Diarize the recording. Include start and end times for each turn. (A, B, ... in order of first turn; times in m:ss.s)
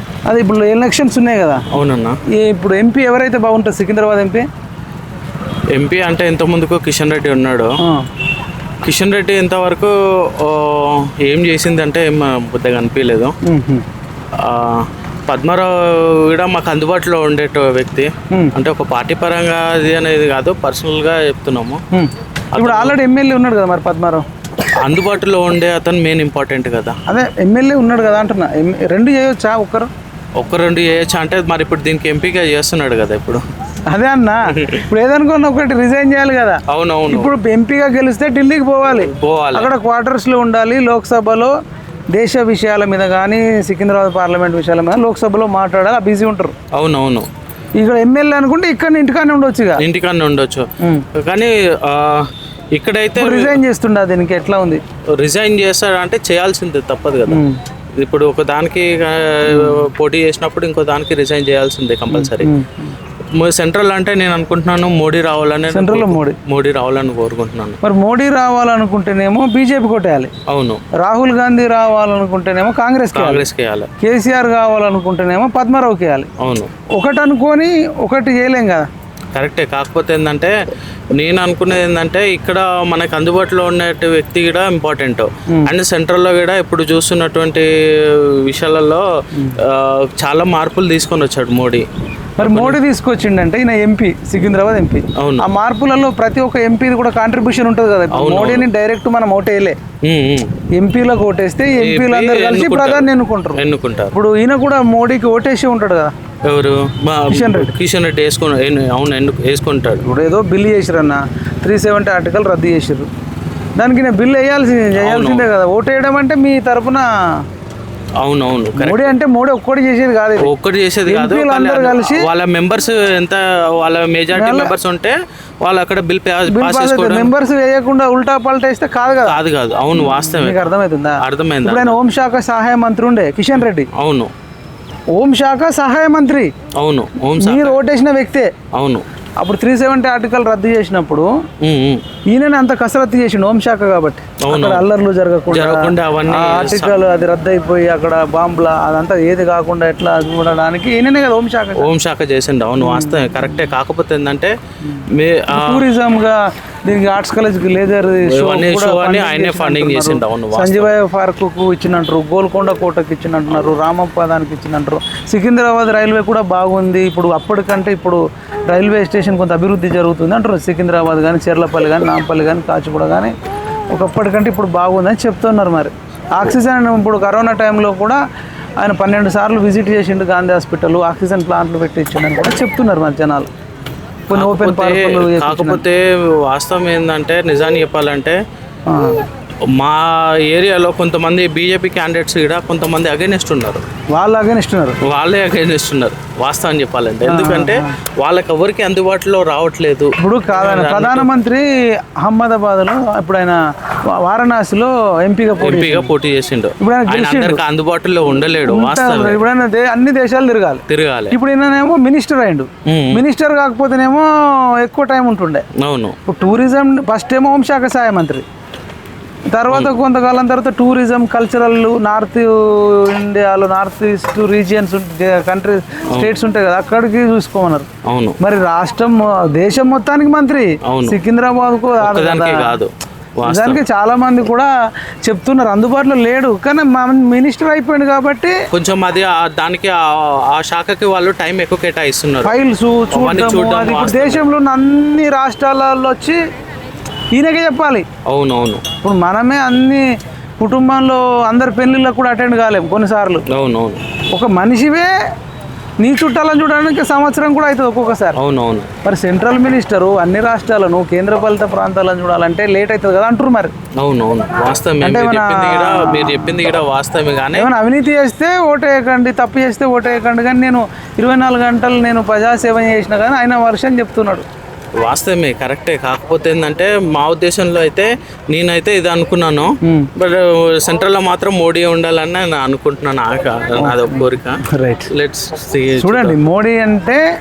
0:00.3-0:01.6 A
0:01.7-0:02.2 B
0:02.4-0:04.4 A
0:05.7-0:07.8 B
0:07.8-0:08.1 A
0:08.8-0:13.4 B
0:13.5-0:13.8 A
0:14.4-0:21.8 B
0:21.9-0:24.2 A
0:22.5-0:23.0 B
0:24.8-0:27.0 B
0:27.1-0:29.9 A
0:30.4-0:33.4 B
0:33.9-0:41.5 A
0:34.5-0:34.8 B
0:36.7-0:37.3 B
0:39.0-0:39.7 B
0:42.1-0:46.5 A
0:46.7-0:47.3 B
0:47.8-0:49.8 A
0:49.8-0:53.6 B
0:50.8-0:51.1 A
0:53.2-0:54.8 A
0:55.2-0:57.4 B
0:57.3-0:57.6 A
0:58.0-1:02.5 B
0:59.5-0:59.9 A
1:02.1-1:02.9 A
1:03.4-1:07.8 B
1:05.7-1:06.4 A
1:07.8-1:10.3 A
1:10.5-1:10.8 B
1:11.0-1:13.5 A
1:13.1-1:13.9 B
1:14.0-1:16.3 A
1:16.4-1:16.7 B
1:17.0-1:18.9 A
1:19.3-1:20.5 B
1:21.2-1:29.0 B
1:29.6-1:31.9 B
1:32.4-1:39.8 A
1:32.4-1:32.8 B
1:35.2-1:35.5 B
1:38.1-1:38.7 B
1:40.0-1:40.5 B
1:40.8-1:43.6 A
1:41.8-1:44.2 B
1:44.1-1:46.1 A
1:46.4-1:50.0 B
1:47.3-1:47.7 A
1:50.0-1:53.1 A
1:53.8-1:57.1 A
1:55.0-1:55.5 B
1:58.2-1:59.2 B
1:58.8-2:00.5 A
2:00.4-2:07.3 B
2:01.1-2:02.3 A
2:04.3-2:04.8 A
2:06.5-2:09.4 A
2:09.2-2:12.0 B
2:10.0-2:13.9 A
2:13.9-2:14.3 B
2:15.2-2:16.5 A
2:16.8-2:17.8 B
2:17.4-2:18.5 A
2:18.7-2:19.0 B
2:19.4-2:21.3 A
2:21.6-2:22.0 B
2:22.3-2:31.9 A
2:24.4-2:24.8 B
2:25.5-2:27.0 B
2:31.8-2:34.5 B
2:32.8-2:33.6 A
2:34.8-2:53.3 A
2:35.1-2:35.8 B
2:38.2-2:40.9 B
2:53.9-2:58.2 A
2:58.8-3:03.5 A
3:04.3-3:05.8 A
3:04.3-3:08.4 B
3:08.9-3:09.2 A
3:09.8-3:13.8 B
3:14.1-3:15.0 A
3:15.0-3:21.3 B
3:17.2-3:18.0 A
3:20.2-3:21.7 A
3:22.2-3:23.6 A
3:24.2-3:26.1 A
3:25.6-3:29.4 B
3:26.8-3:27.6 A
3:28.6-3:35.6 A
3:30.9-3:31.4 B
3:32.8-3:33.2 B
3:35.8-3:36.2 B
3:36.3-3:38.4 A
3:39.5-3:47.9 A
3:39.7-3:40.0 B
3:48.0-3:48.4 B
3:48.4-3:52.8 A
3:50.9-3:51.2 B
3:52.0-3:53.8 B
3:53.4-3:54.7 A
3:55.2-3:58.6 A
3:58.7-4:02.6 B
4:02.4-4:06.4 A
4:03.1-4:04.5 B
4:07.3-4:08.1 A
4:08.3-4:08.8 B
4:09.0-4:10.0 A
4:10.6-4:13.4 A
4:13.5-4:14.0 B
4:14.3-4:15.1 A
4:16.0-4:18.4 A
4:18.4-4:18.9 B
4:19.0-4:23.7 A
4:24.0-4:27.7 B
4:25.0-4:26.6 A
4:27.5-4:34.4 A
4:35.0-4:46.4 B
4:39.8-4:40.1 A
4:43.8-4:45.1 A
4:46.0-4:47.2 A